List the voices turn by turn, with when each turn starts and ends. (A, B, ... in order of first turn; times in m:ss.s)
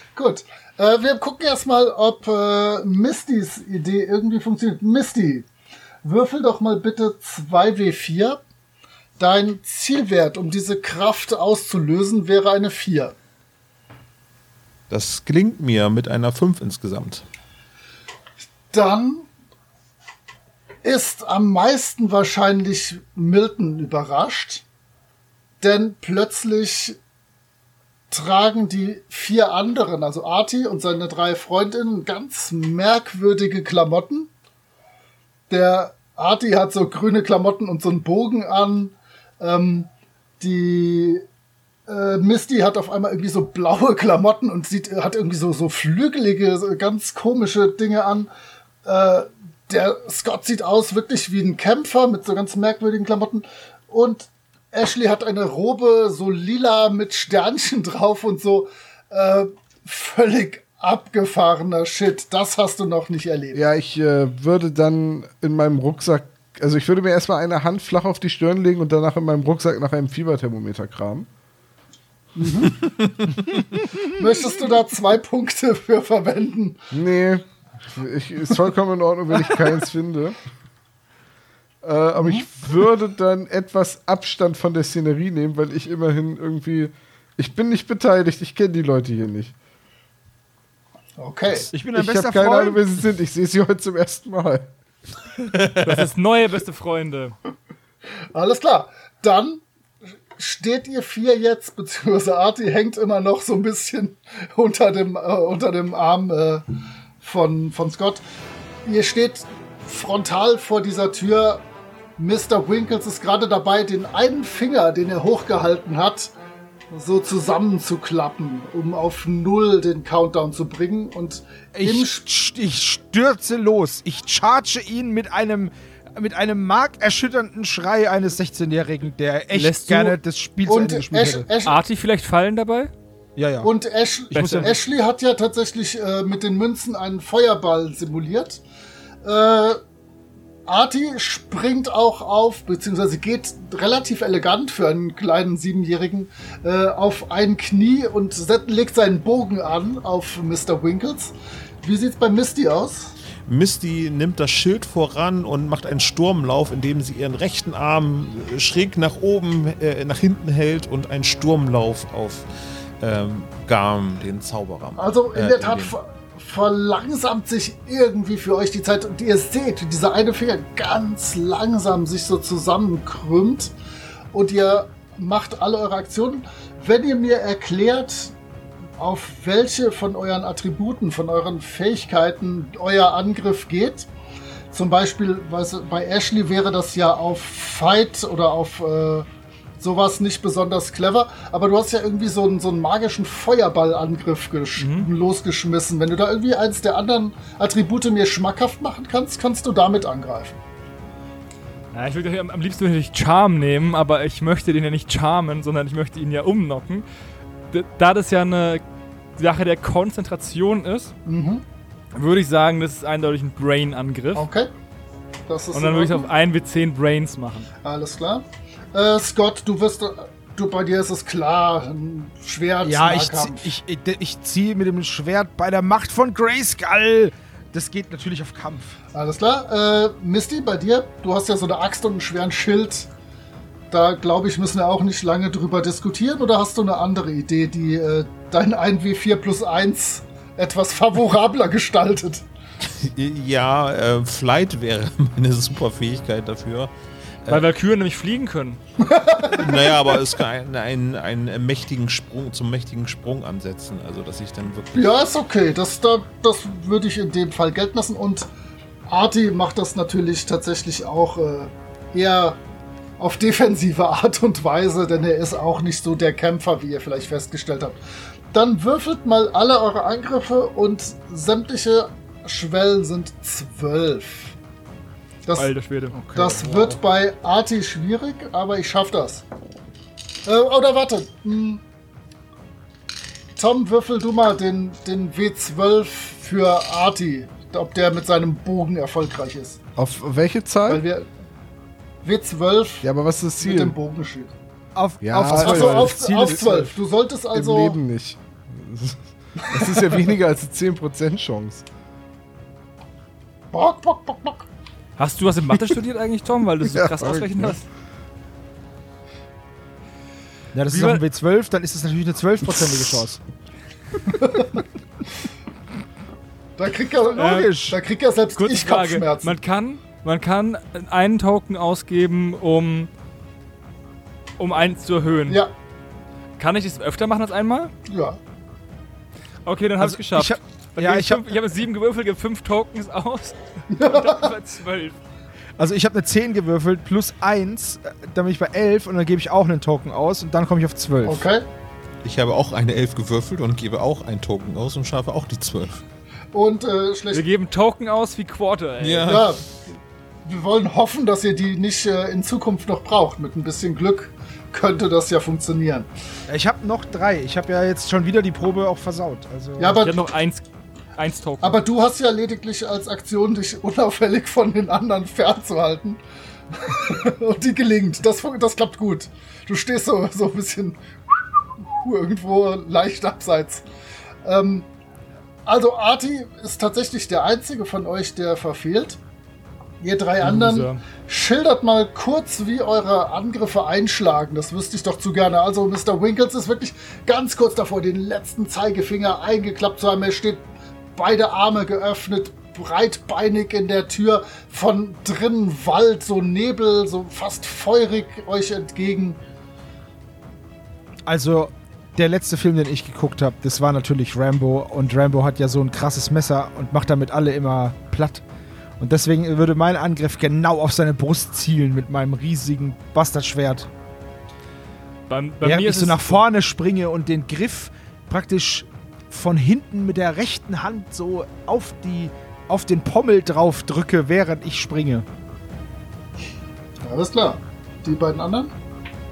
0:00.2-0:05.5 A
0:06.0-0:08.4 A
0:09.2-0:13.1 A
0:14.9-0:17.2 B
0:18.7-0:19.3 A
0:20.8-0:24.6 A
0:25.6-0:27.0 A
0:28.1-0:34.3 A
0:35.5-0:41.2 A
0:41.9-0:48.3 A
0:48.8-1:03.6 A
1:03.5-1:11.3 C
1:12.4-1:12.9 A
1:14.0-1:16.8 A
1:16.9-1:20.4 C
1:21.8-1:29.5 C
1:22.2-1:22.5 A
1:31.2-1:31.7 A
1:31.7-1:32.8 D
1:31.9-1:34.7 C
1:35.4-1:36.1 B
1:35.8-1:37.4 E
1:38.3-1:39.6 A
1:40.4-1:46.6 A
1:47.2-1:48.2 A
1:48.8-1:51.6 A
1:52.2-1:56.3 A
1:56.9-2:02.2 A
2:01.8-2:11.5 D
2:09.5-2:10.2 E
2:10.7-2:11.8 A
2:11.6-2:12.9 E
2:13.4-2:13.7 D
2:13.6-2:18.6 A
2:14.3-2:14.8 D
2:14.3-2:14.8 E
2:19.2-2:19.8 A
2:20.7-2:33.2 A
2:33.5-2:42.5 B
2:43.0-2:46.0 B
2:45.0-2:53.7 A
2:54.3-2:58.4 A
2:59.0-3:04.1 A
3:04.7-3:09.3 A
3:09.8-3:20.6 A
3:14.8-3:15.1 E
3:21.9-3:27.0 E
3:27.7-3:28.8 E
3:29.4-3:31.1 E
3:31.3-3:31.6 A
3:32.1-3:34.5 E
3:34.4-3:34.7 A
3:35.5-3:36.3 A
3:35.7-3:37.7 E
3:37.8-3:43.7 A
3:42.8-3:49.0 D
3:49.1-3:53.1 A
3:53.9-4:02.4 A
4:02.9-4:06.9 B
4:07.5-4:08.8 E
4:09.0-4:10.0 A
4:09.4-4:15.1 B
4:14.9-4:18.5 A
4:19.1-4:22.6 A
4:23.2-4:28.0 A
4:28.5-4:34.6 A
4:35.5-4:35.7 A
4:35.6-4:36.2 E
4:36.1-4:37.0 D
4:36.3-4:39.4 A
4:40.4-4:41.8 A
4:43.6-4:49.8 A
4:50.0-4:51.0 C
4:50.9-4:51.3 A
4:52.2-4:53.1 A
4:53.0-4:54.0 C
4:53.6-4:54.5 A
4:55.0-4:56.9 D
4:55.2-4:56.6 C
4:55.5-4:58.0 A
4:57.5-5:01.8 C
4:59.7-5:00.2 A
5:03.7-5:04.6 A
5:05.2-5:07.8 E
5:06.8-5:07.8 C
5:10.7-5:13.4 D
5:10.9-5:11.2 E
5:14.4-5:14.7 A
5:16.8-5:19.6 A
5:17.2-5:18.0 D
5:18.6-5:23.1 E
5:24.6-5:25.6 E
5:26.6-5:27.9 E
5:28.1-5:28.4 A
5:29.6-5:35.2 E
5:30.0-5:31.4 D
5:33.9-5:34.5 A
5:35.8-5:41.5 D
5:41.2-5:41.6 A
5:42.2-5:46.0 B
5:46.5-5:47.4 A
5:47.3-5:49.4 E
5:49.0-5:49.6 B
5:49.3-5:56.1 A
5:56.5-6:00.0 D
5:59.8-6:00.2 A
6:00.0-6:00.6 E
6:01.2-6:01.8 E
6:01.6-6:06.2 A
6:06.7-6:11.0 A
6:12.0-6:13.8 A
6:14.4-6:14.9 A
6:15.7-6:19.2 A
6:20.0-6:39.4 A
6:20.4-6:21.0 E
6:41.3-6:48.4 D
6:49.0-6:53.9 D
6:55.3-6:56.4 E
6:55.6-7:05.3 D
7:07.0-7:08.7 A